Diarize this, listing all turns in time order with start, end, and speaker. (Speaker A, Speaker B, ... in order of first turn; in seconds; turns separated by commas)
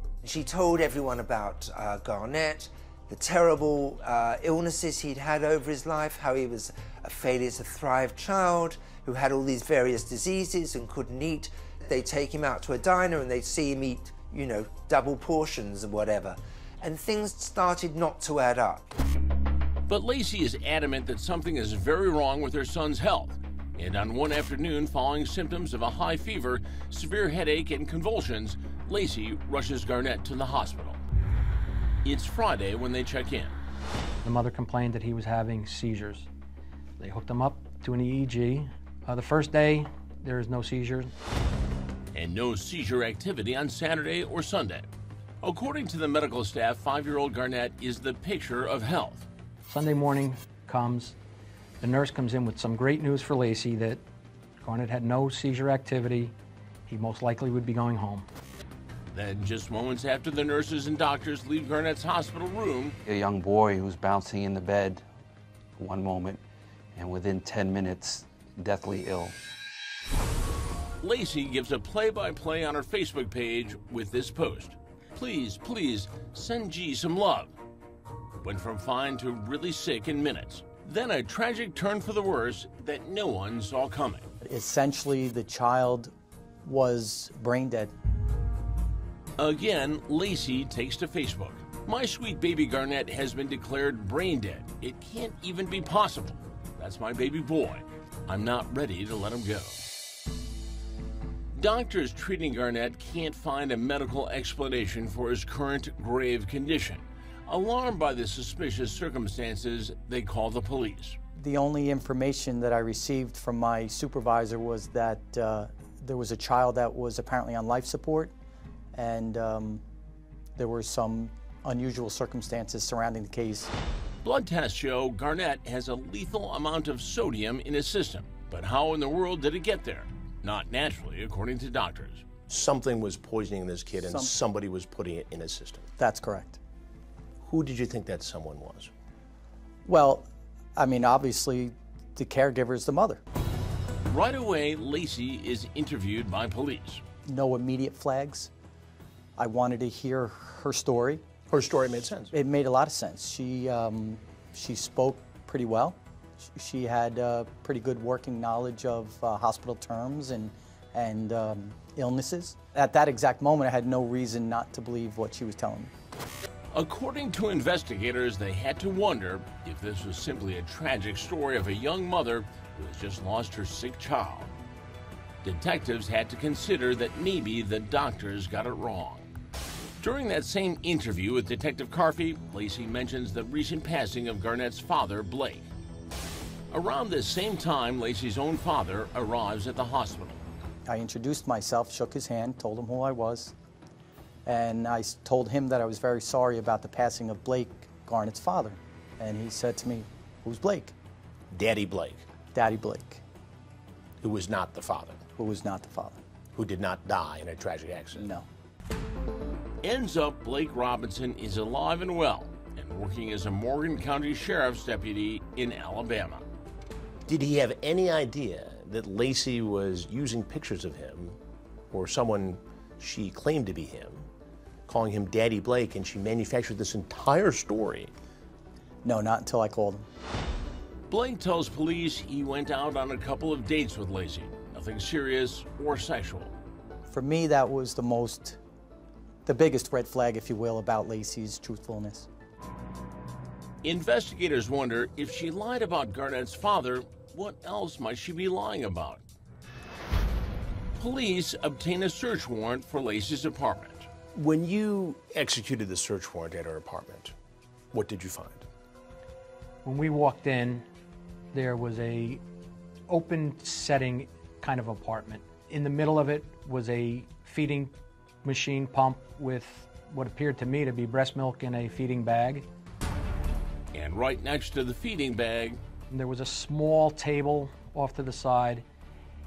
Speaker A: 0.2-18.9, Speaker B: 19.9-31.0, Speaker B: 32.0-33.6, Speaker C: 34.2-36.3, Speaker C: 37.0-41.1, Speaker B: 42.1-44.9, Speaker B: 45.4-49.3, Speaker C: 49.7-51.1, Speaker C: 51.8-54.0, Speaker C: 54.6-56.3, Speaker C: 56.9-58.3, Speaker B: 59.1-63.0, Speaker D: 63.0-65.0, Speaker D: 65.8-66.4, Speaker D: 67.0-69.3, Speaker B: 71.0-77.5, Speaker B: 78.4-84.3, Speaker E: 84.4-86.1, Speaker E: 86.6-87.9, Speaker B: 89.4-99.8, Speaker B: 101.5-111.2, Speaker E: 111.4-118.3, Speaker E: 118.9-119.8, Speaker E: 120.6-123.7, Speaker B: 124.2-132.3, Speaker F: 132.5-135.9, Speaker E: 134.0-134.3, Speaker E: 136.0-136.6, Speaker F: 137.4-138.9, Speaker E: 139.8-143.2, Speaker B: 144.1-147.0, Speaker E: 147.3-148.5, Speaker E: 149.4-151.2, Speaker F: 151.5-152.3, Speaker E: 152.3-165.9, Speaker B: 166.7-174.5, Speaker B: 175.4-179.3, Speaker B: 180.0-185.7, Speaker B: 186.7-190.4, Speaker E: 190.8-193.5, Speaker E: 194.4-200.9, Speaker F: 201.5-202.2, Speaker E: 202.5-203.2, Speaker F: 204.2-205.2, Speaker E: 205.4-206.2, Speaker F: 206.5-208.3, Speaker E: 208.1-208.5, Speaker B: 209.8-216.4, Speaker F: 217.3-221.4, Speaker F: 221.9-224.3, Speaker F: 224.9-228.1, Speaker E: 229.0-230.1, Speaker B: 231.1-236.5, Speaker E: 237.1-238.6, Speaker E: 239.5-242.3, Speaker B: 243.8-249.2, Speaker B: 251.0-254.1, Speaker F: 254.3-257.3, Speaker F: 257.9-258.7, Speaker C: 259.9-260.9, Speaker C: 261.5-262.4, Speaker C: 263.1-267.9, Speaker C: 268.4-272.7, Speaker B: 273.9-275.8, Speaker C: 276.1-278.9